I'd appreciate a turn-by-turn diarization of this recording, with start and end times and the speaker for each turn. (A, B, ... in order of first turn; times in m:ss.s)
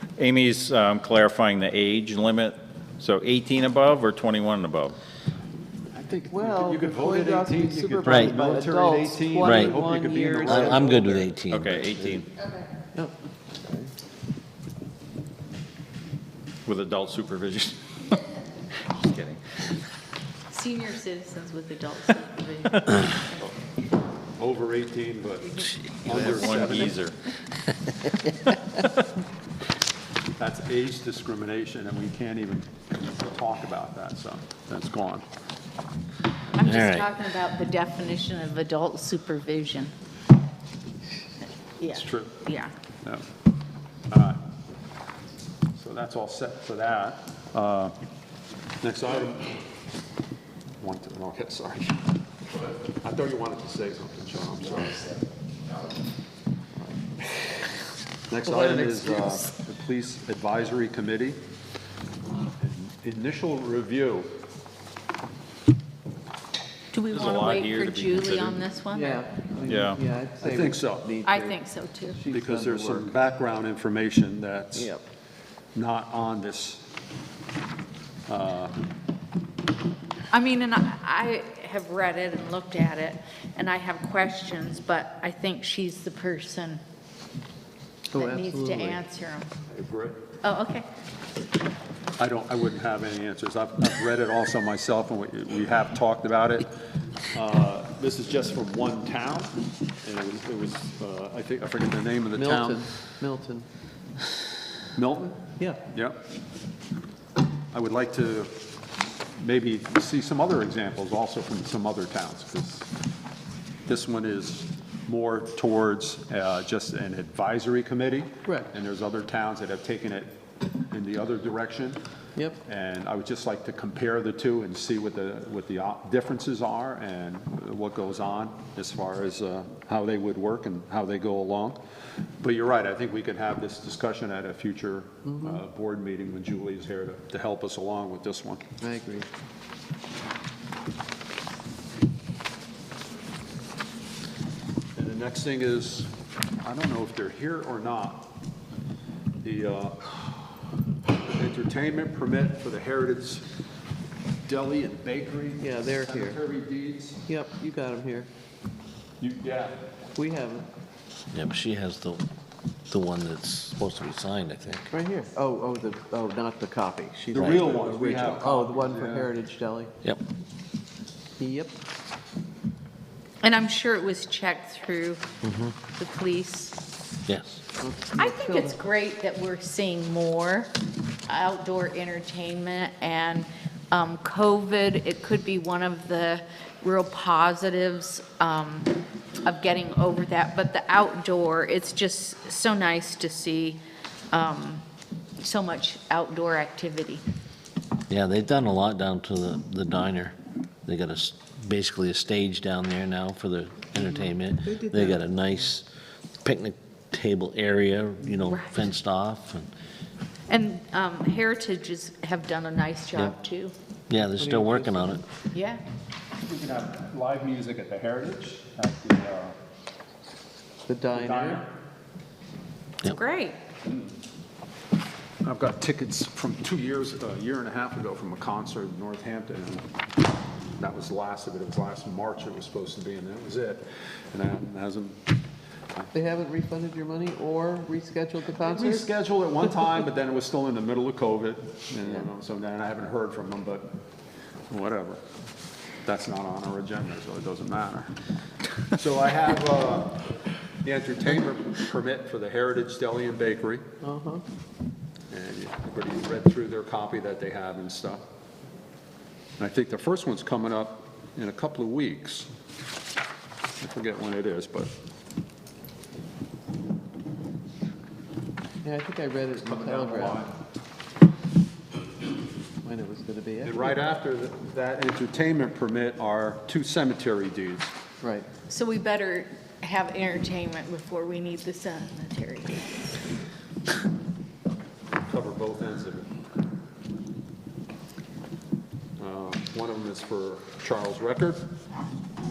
0:00.2-0:05.0 A
0:05.9-0:11.3 B
0:06.3-0:11.3 C
0:08.1-0:08.4 D
0:09.4-0:09.8 D
0:10.4-0:12.2 D
0:11.5-0:12.3 A
0:12.9-0:13.9 C
0:16.7-0:18.2 A
0:18.9-0:19.6 A
0:20.5-0:23.5 E
0:24.4-0:27.0 B
0:25.5-0:26.8 E
0:26.0-0:27.2 A
0:30.3-0:35.3 B
0:36.6-0:39.9 E
0:36.6-0:37.1 D
0:41.8-0:42.7 E
0:41.9-0:42.4 B
0:44.1-0:44.4 B
0:45.8-0:48.0 B
0:48.8-0:49.5 B
0:50.8-0:52.0 B
0:53.0-0:55.2 B
0:58.3-1:01.4 B
0:58.5-0:59.5 E
1:02.6-1:04.3 B
1:06.9-1:09.2 E
1:07.1-1:08.6 A
1:08.9-1:13.2 C
1:09.7-1:10.0 A
1:10.4-1:11.2 B
1:11.2-1:12.2 E
1:12.3-1:14.9 B
1:14.7-1:15.0 C
1:15.8-1:16.8 B
1:18.3-1:18.8 B
1:20.3-1:26.8 E
1:28.1-1:29.0 C
1:28.2-1:29.5 E
1:29.7-1:30.2 B
1:30.4-1:30.9 E
1:32.2-1:36.7 B
1:37.3-1:42.9 B
1:42.3-1:43.7 C
1:45.0-1:46.2 B
1:45.6-1:45.8 C
1:47.7-1:48.6 B
1:49.4-1:52.9 B
1:53.9-2:00.4 B
1:58.4-1:58.7 C
2:00.9-2:02.0 B
2:02.7-2:11.8 B
2:12.4-2:18.7 B
2:15.2-2:15.6 C
2:18.8-2:19.3 C
2:25.0-2:28.3 B
2:29.4-2:30.3 B
2:31.2-2:33.5 B
2:34.5-2:37.2 B
2:35.6-2:36.4 C
2:37.3-2:38.3 C
2:39.2-2:39.8 B
2:40.2-2:40.7 C
2:41.3-2:42.3 D
2:42.9-2:44.9 D
2:44.9-2:49.9 C
2:47.3-2:49.4 B
2:47.4-2:47.7 D
2:51.4-2:51.7 C
2:53.4-2:55.3 E
2:55.4-2:55.7 D
2:55.9-2:56.8 E
2:57.3-2:57.6 D
2:57.8-2:58.8 C
2:58.2-3:00.7 E
3:01.3-3:08.9 E
3:09.4-3:14.8 E
3:15.4-3:17.2 E
3:18.1-3:25.9 D
3:24.0-3:25.2 C
3:26.4-3:29.7 D
3:28.5-3:28.8 E
3:30.5-3:33.7 E
3:34.1-3:35.2 D
3:34.4-3:35.2 C
3:35.5-3:35.8 E
3:36.4-3:39.6 B
3:40.9-3:41.6 C
3:41.1-3:41.7 B
3:43.0-3:43.6 E
3:43.8-3:44.1 B
3:45.4-3:49.9 B
3:50.8-3:55.2 B
3:56.1-3:59.2 C
3:58.6-4:03.9 B
4:04.7-4:05.2 B
4:06.0-4:08.1 B
4:08.9-4:13.9 B
4:14.0-4:14.4 C
4:15.3-4:18.2 B
4:19.6-4:22.5 B
4:23.8-4:24.9 B
4:28.8-4:30.5 C
4:29.5-4:30.5 B
4:32.8-4:34.0 C
4:33.6-4:38.0 B
4:38.2-4:38.5 C
4:38.7-4:43.1 E
4:45.2-4:46.3 B
4:49.2-4:51.6 B